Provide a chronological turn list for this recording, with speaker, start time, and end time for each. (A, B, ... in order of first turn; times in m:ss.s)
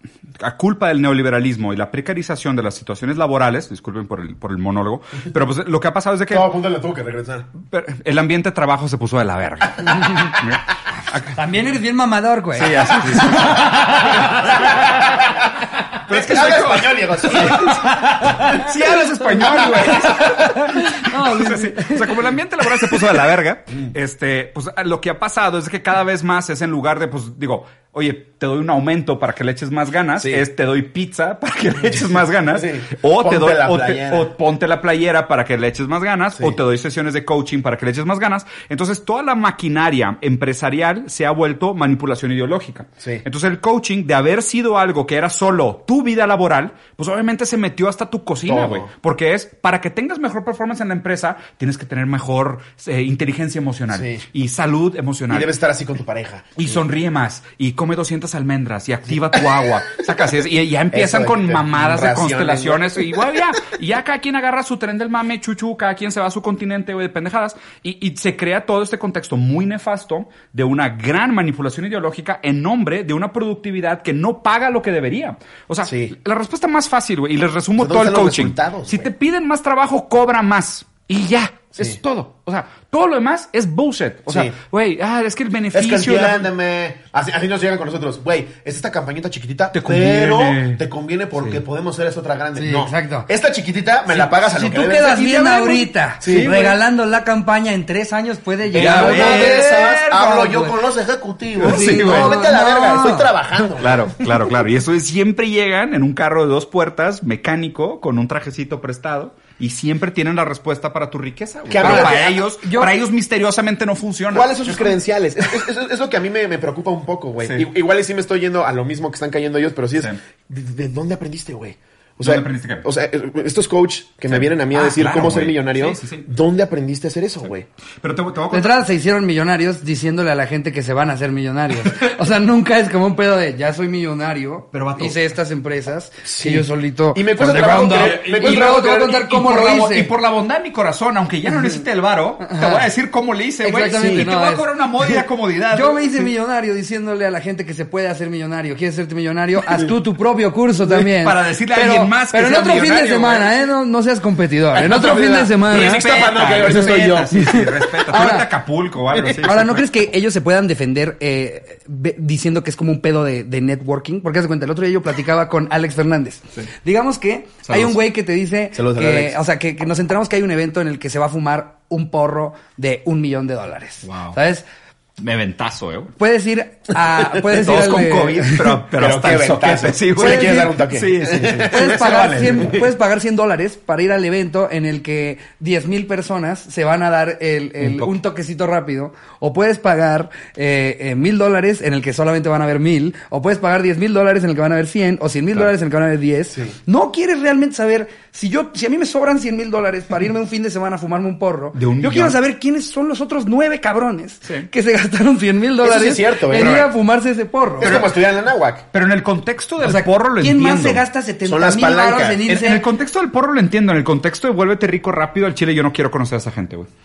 0:00.4-0:06.5 A
0:06.3-0:07.5 B
0:07.6-0:11.4 A
0:11.3-0:14.7 C
0:12.6-0:14.9 A
0:14.3-0:15.5 B
0:16.0-0:55.5 A
0:16.1-0:18.4 B
0:18.0-0:18.7 C
0:20.5-0:22.3 C
0:30.2-0:30.4 B
0:32.5-0:34.3 B
0:48.4-0:48.9 B
0:53.9-0:54.2 B
0:55.3-0:56.8 B
0:56.6-1:26.5 A
1:00.9-1:03.2 B
1:15.8-1:16.1 B
1:17.8-1:19.1 B
1:24.3-1:24.5 B
1:25.7-1:35.4 B
1:29.7-1:30.8 A
1:32.6-1:33.3 C
1:34.1-1:39.9 C
1:35.3-1:36.7 A
1:36.2-1:36.7 B
1:38.7-1:44.1 B
1:38.7-1:40.6 A
1:41.6-1:42.4 A
1:41.6-1:43.3 C
1:43.8-1:55.0 A
1:51.7-1:52.4 B
1:51.8-1:52.9 C
1:54.3-2:07.7 B
2:02.2-2:02.8 A
2:04.3-2:06.3 A
2:08.0-2:08.7 A
2:08.5-2:20.1 C
2:14.7-2:15.2 A
2:16.2-2:19.1 B
2:17.4-2:26.3 A
2:21.5-2:21.8 C
2:22.4-2:22.9 C
2:23.6-2:25.2 C
2:24.0-2:24.3 B
2:25.7-2:36.0 C
2:30.9-2:33.6 A
2:34.7-2:37.6 B
2:35.7-2:39.8 A
2:36.7-2:38.5 C
2:39.1-2:39.4 B
2:39.4-2:54.6 C
2:47.7-2:48.0 A
2:48.7-2:49.4 B
2:54.0-2:54.4 A
2:55.2-2:56.1 A
2:56.2-2:58.8 C
2:57.4-3:02.7 A
2:58.9-3:02.8 B
3:00.2-3:00.8 C
3:01.6-3:27.9 C
3:07.8-3:08.1 A
3:21.7-3:22.4 A
3:25.8-3:26.8 B
3:26.5-3:26.9 A
3:27.8-3:28.8 B
3:27.8-3:28.2 A
3:28.9-3:31.0 A
3:29.8-3:32.8 C
3:31.4-3:32.4 B
3:32.5-3:36.9 A